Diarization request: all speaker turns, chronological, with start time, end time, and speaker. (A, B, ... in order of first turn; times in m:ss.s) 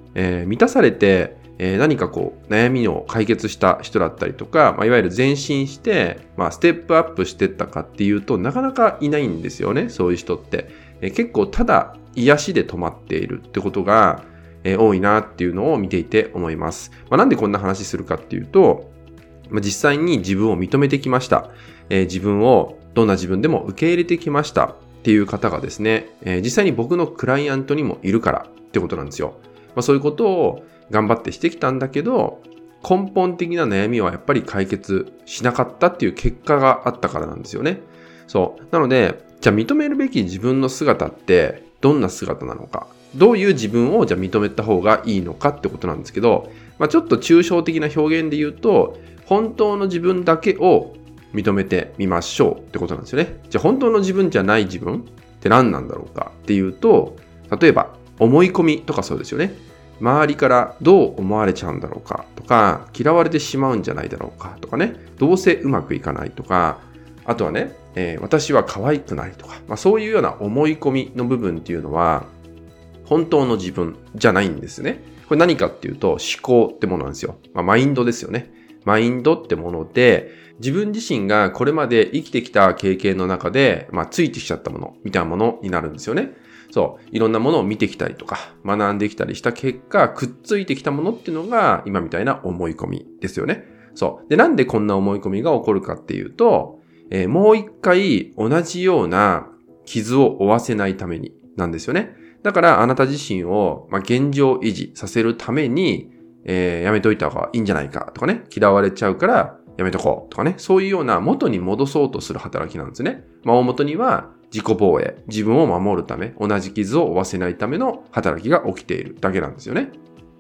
0:00.2-0:18.9 A
0:19.5-1:12.3 A
1:13.0-2:00.0 A